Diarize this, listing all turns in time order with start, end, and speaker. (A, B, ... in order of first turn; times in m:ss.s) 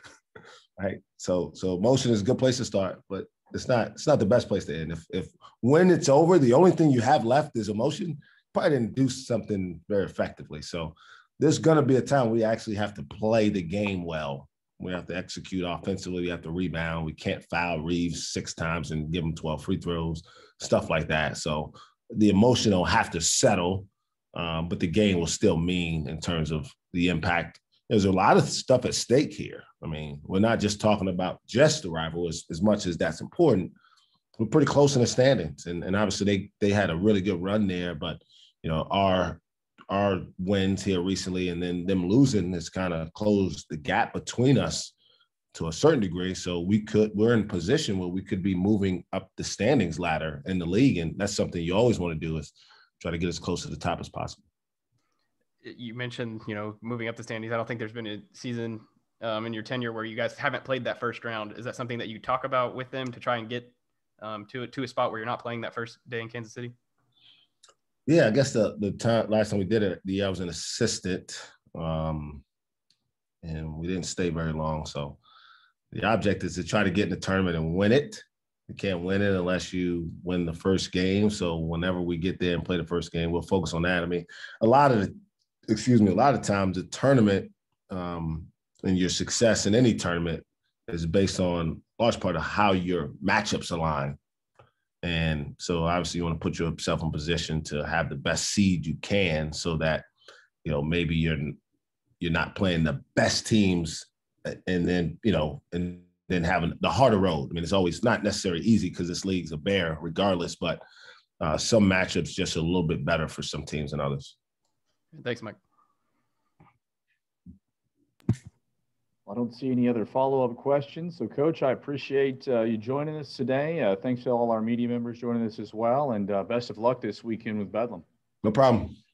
0:00.8-0:33.7 A
0:34.4-0:44.9 A
0:45.5-0:54.4 A
0:55.6-1:06.7 B
1:08.1-1:12.4 A
1:13.4-1:15.2 A
1:15.9-1:25.1 A
1:25.7-1:34.2 A
1:35.0-1:40.0 A
1:40.6-1:41.6 A
1:42.2-1:50.8 A
1:51.4-1:54.4 A
1:55.1-1:55.6 B
1:59.3-2:08.0 C
2:08.4-2:09.0 A